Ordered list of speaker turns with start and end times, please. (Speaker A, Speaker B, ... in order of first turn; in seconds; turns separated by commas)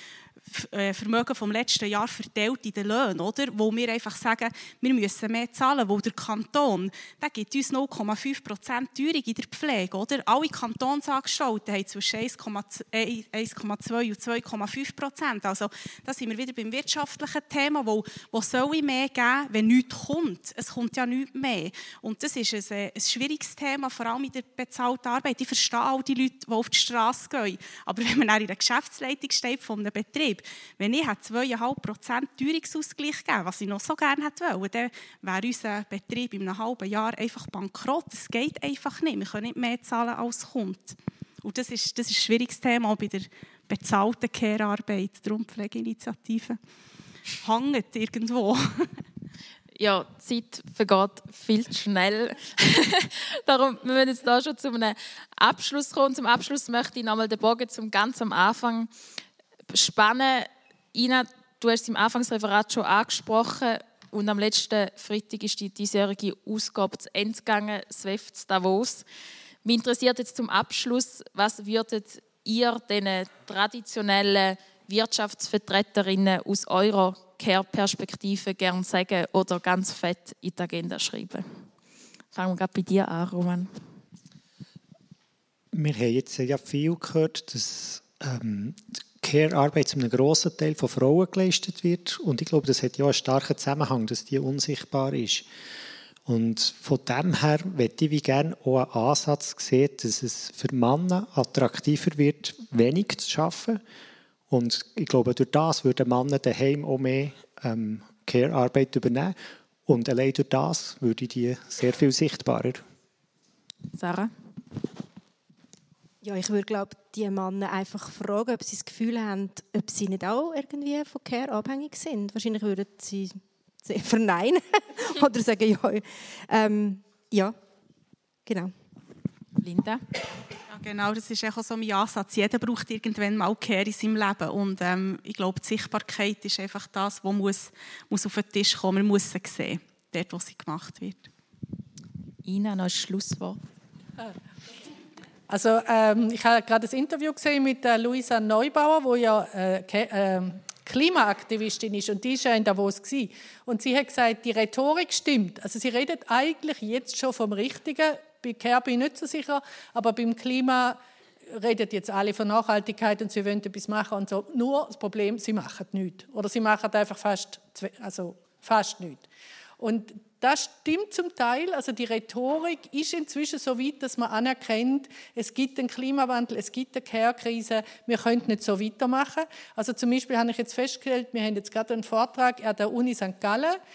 Speaker A: 0.5-46.6, Speaker A: 47.4-49.0, Speaker B: 49.8-58.9, Speaker B: 59.7-69.0, Speaker B: 69.7-81.5, Speaker B: 82.3-83.7, Speaker C: 85.7-95.5, Speaker C: 96.3-103.8, Speaker C: 104.5-112.8, Speaker B: 114.0-114.3, Speaker D: 116.2-127.6, Speaker D: 128.5-128.7, Speaker B: 129.6-130.1, Speaker A: 130.7-141.3, Speaker B: 142.4-143.6, Speaker E: 145.5-161.0, Speaker E: 161.5-169.3, Speaker E: 169.8-183.8